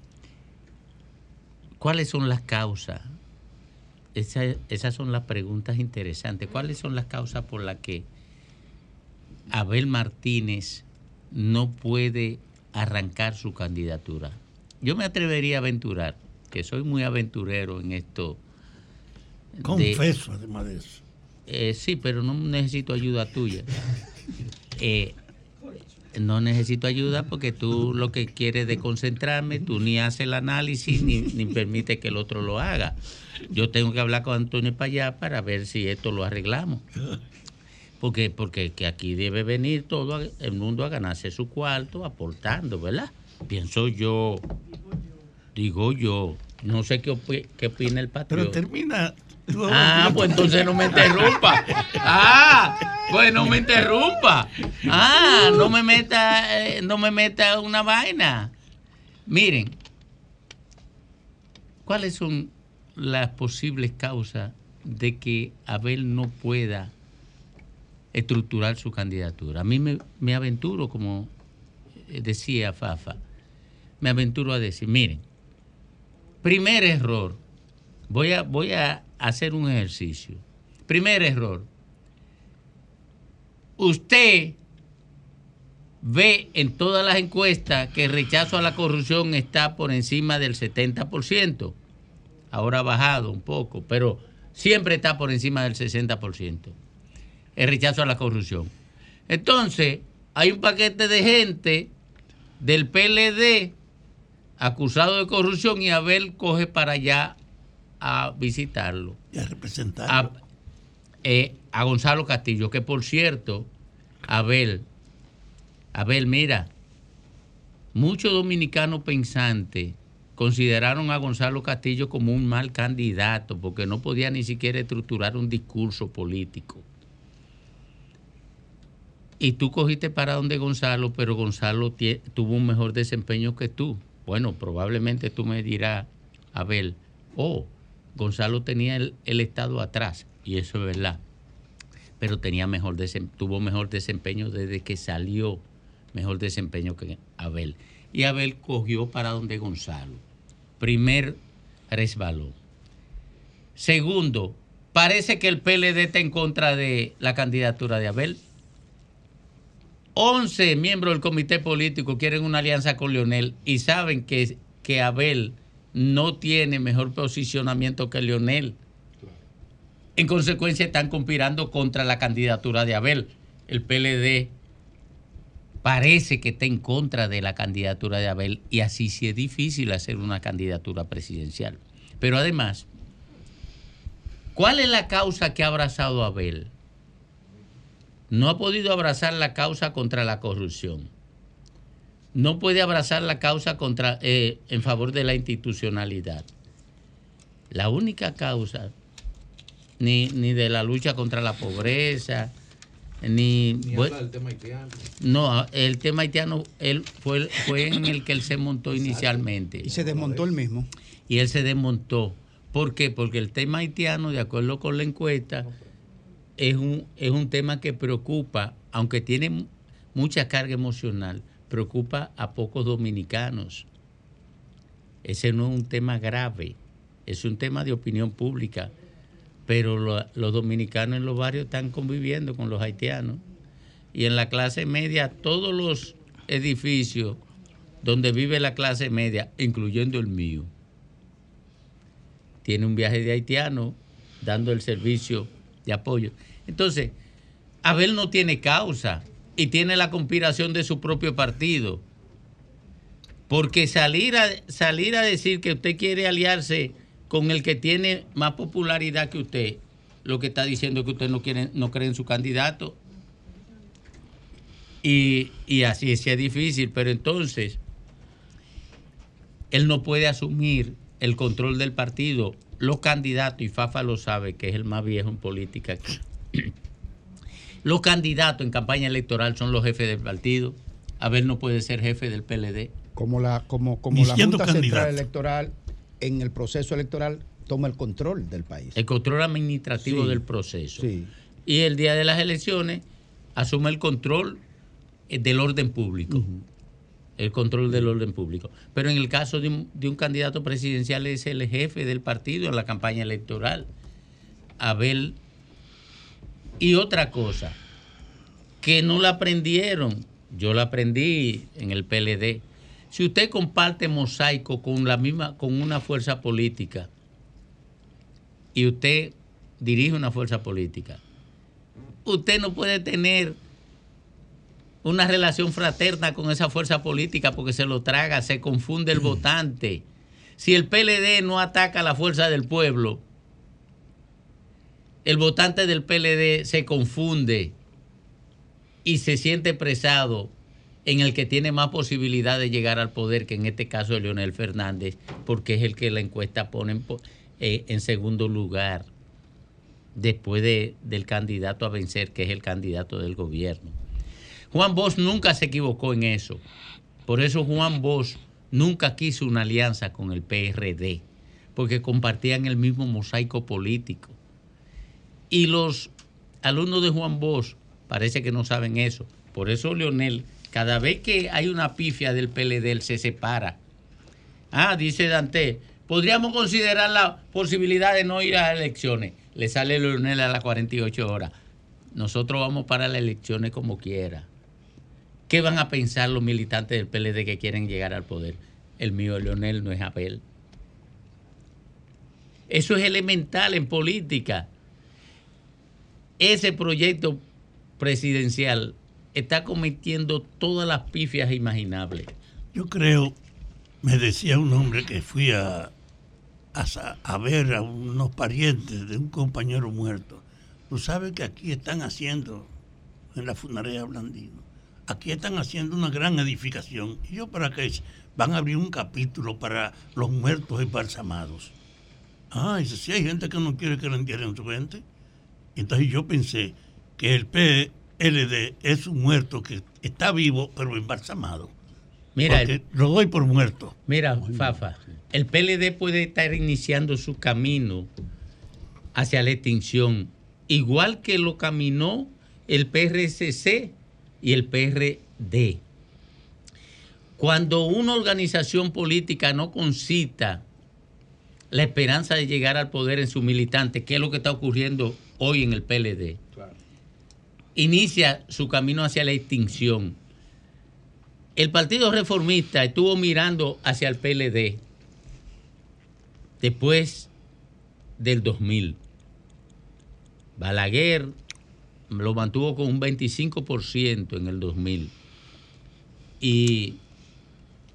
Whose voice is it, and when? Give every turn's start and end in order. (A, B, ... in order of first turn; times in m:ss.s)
0:01.8-0:03.1 A
0:04.1-0:08.0 A
0:09.5-0:18.4 A
0:19.6-0:20.0 A
0:19.6-0:21.0 B
0:21.5-0:23.7 A
0:24.8-0:25.1 A
0:26.1-0:33.0 A
0:33.5-0:36.8 A
0:38.0-0:44.4 A
0:45.5-0:48.6 A
0:48.3-0:51.8 B
0:49.7-0:58.5 A
0:59.3-0:59.8 A
1:01.8-1:06.9 A
1:08.1-1:11.3 A
1:12.1-1:13.2 A
1:14.0-1:15.2 A
1:16.4-1:17.4 A
1:18.1-1:21.7 A
1:23.8-1:24.6 A
1:26.0-1:31.8 A
1:32.5-1:36.7 A
1:37.6-1:38.7 A
1:39.3-1:41.9 A
1:42.6-1:43.7 A
1:44.6-1:47.4 A
1:48.0-1:49.2 A
1:49.3-1:50.3 B
1:50.1-1:50.3 A
1:51.2-1:53.7 A
1:54.3-1:54.9 A
1:55.9-1:56.7 A
1:57.9-2:06.8 A
2:09.4-2:21.2 A
2:22.2-2:25.6 A
2:26.1-2:30.2 A
2:30.8-2:31.4 A
2:31.9-2:32.6 A
2:33.8-2:38.4 A
2:40.2-2:48.8 A
2:50.2-2:54.5 A
2:55.8-3:02.8 A
3:04.5-3:06.7 A
3:08.3-3:11.1 A
3:12.3-3:16.5 A
3:17.7-3:18.9 A
3:20.0-3:22.5 A
3:23.2-3:24.2 A
3:23.8-3:25.1 C
3:25.2-3:29.9 A
3:28.9-3:30.4 C
3:29.8-3:30.9 D
3:31.3-3:35.7 A
3:36.6-3:43.8 A
3:45.2-3:48.9 A
3:49.7-3:53.4 A
3:54.1-3:57.4 A
3:58.0-4:00.7 A
4:02.6-4:07.1 A
4:07.8-4:12.0 A
4:13.5-4:23.0 A
4:25.0-4:27.8 A
4:29.7-4:36.7 A
4:37.8-4:42.9 A
4:43.2-4:49.0 D
4:44.1-4:45.2 B
4:49.0-4:51.1 A
4:50.0-4:50.4 D
4:51.0-4:51.3 D
4:51.6-4:53.0 A
4:53.6-4:54.6 A
4:55.3-4:56.5 A
4:57.4-5:03.9 A
5:04.8-5:05.4 A
5:06.8-5:07.8 A
5:08.8-5:17.1 A
5:18.7-5:21.2 A
5:22.2-5:23.6 A
5:25.0-5:30.0 A
5:30.6-5:33.2 A
5:35.2-5:37.7 A
5:39.0-5:40.5 A
5:41.0-5:49.1 A
5:50.2-5:54.0 A
5:54.7-5:56.6 A
5:57.3-6:01.2 A
6:01.8-6:04.4 A
6:05.5-6:06.1 A
6:06.6-6:13.8 A
6:14.7-6:21.5 A
6:22.1-6:24.5 A
6:25.5-6:30.4 A
6:32.7-6:34.7 A
6:36.4-6:37.4 A
6:38.0-6:42.3 A
6:42.7-6:43.3 B
6:44.0-6:45.9 B
6:46.7-6:52.7 B
6:53.3-7:01.7 B
7:02.5-7:05.0 B
7:05.8-7:11.7 B
7:12.4-7:12.7 A
7:12.5-7:13.9 B
7:14.1-7:18.1 A
7:19.1-7:25.8 A
7:27.4-7:30.6 A
7:31.7-7:36.4 A
7:37.8-7:40.2 A
7:41.6-7:44.8 A
7:46.6-7:47.3 A
7:48.2-7:49.0 A
7:50.6-7:51.3 A
7:52.1-7:55.1 A
7:56.4-7:57.0 A